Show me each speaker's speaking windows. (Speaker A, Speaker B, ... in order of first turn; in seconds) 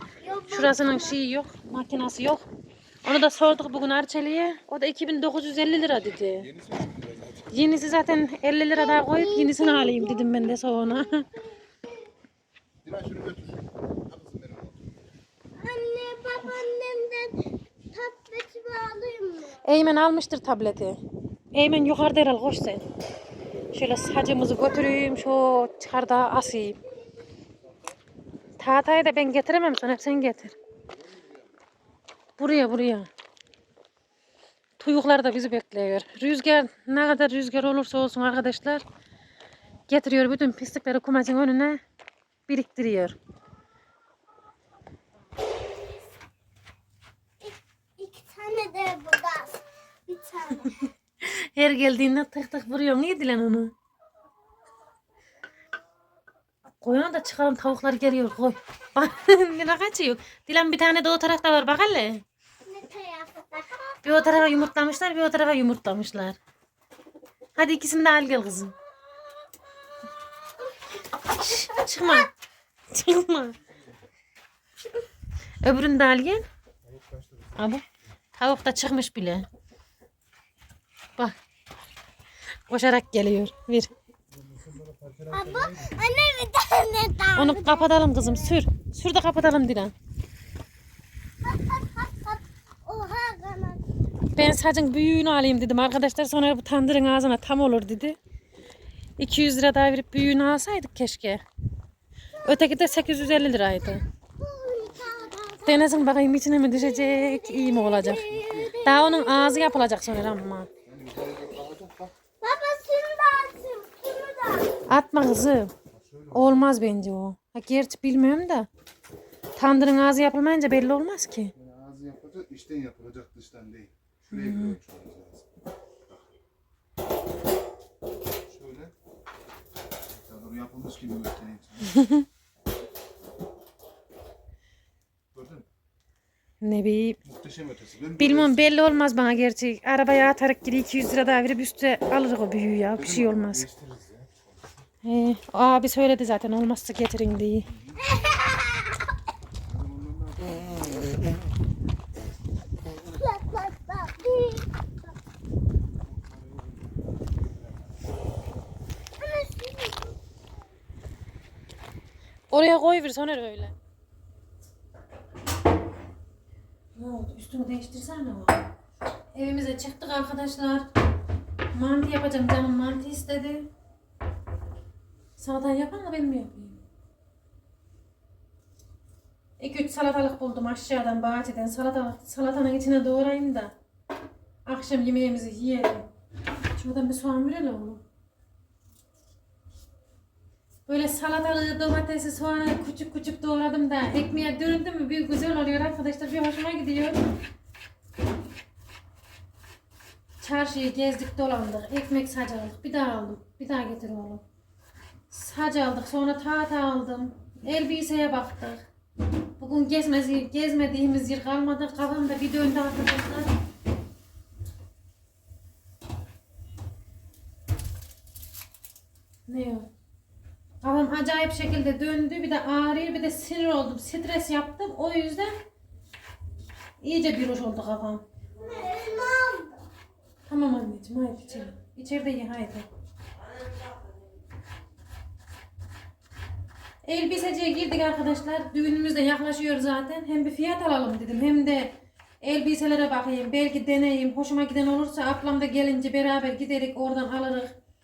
Speaker A: 0.2-1.2, 8.7-11.4, 15.6-17.4, 17.9-19.6, 47.4-50.9, 62.7-64.7, 71.6-72.2, 85.3-88.6, 91.4-93.8, 102.4-106.2, 106.7-109.8, 112.4-114.8, 148.1-148.8, 153.2-154.7, 159.2-160.1, 228.6-229.8
Speaker B: 0.5-2.4, 3.0-6.5, 7.5-11.3, 19.6-21.0, 21.5-22.8, 23.7-26.8, 28.6-30.6, 32.4-33.1, 34.8-38.8, 39.9-41.8, 42.5-43.2, 51.2-53.7, 56.8-62.2, 64.0-66.4, 67.6-68.8, 71.4-72.3, 72.9-73.6, 75.6-76.5, 77.6-77.8, 78.4-79.5, 82.7-83.9, 87.4-89.9, 94.3-98.2, 99.2-101.4, 102.4-104.0, 105.7-108.3, 108.8-110.7, 114.9-115.7, 116.3-118.7, 119.6-121.5, 124.3-124.8, 131.9-132.2, 136.6-137.2, 138.2-143.7, 145.0-147.7, 162.5-163.7, 167.0-168.7, 169.3-170.9, 171.7-173.7, 175.4-176.8, 179.6-183.7, 184.7-186.1, 186.8-188.0, 190.9-197.3, 200.4-204.4, 205.3-208.8, 209.6-213.5, 219.5-219.9, 220.8-225.6, 227.0-228.2, 230.5-232.9, 237.0-247.8
Speaker C: 6.2-7.7, 12.8-15.0, 31.1-31.5, 76.8-77.8, 84.3-86.0, 108.3-108.7, 110.9-112.2, 115.9-116.7, 121.5-126.2, 128.5-128.9, 130.1-132.0, 135.3-135.7, 137.2-138.7, 142.9-144.7, 147.7-148.0, 149.7-150.9, 155.9-158.0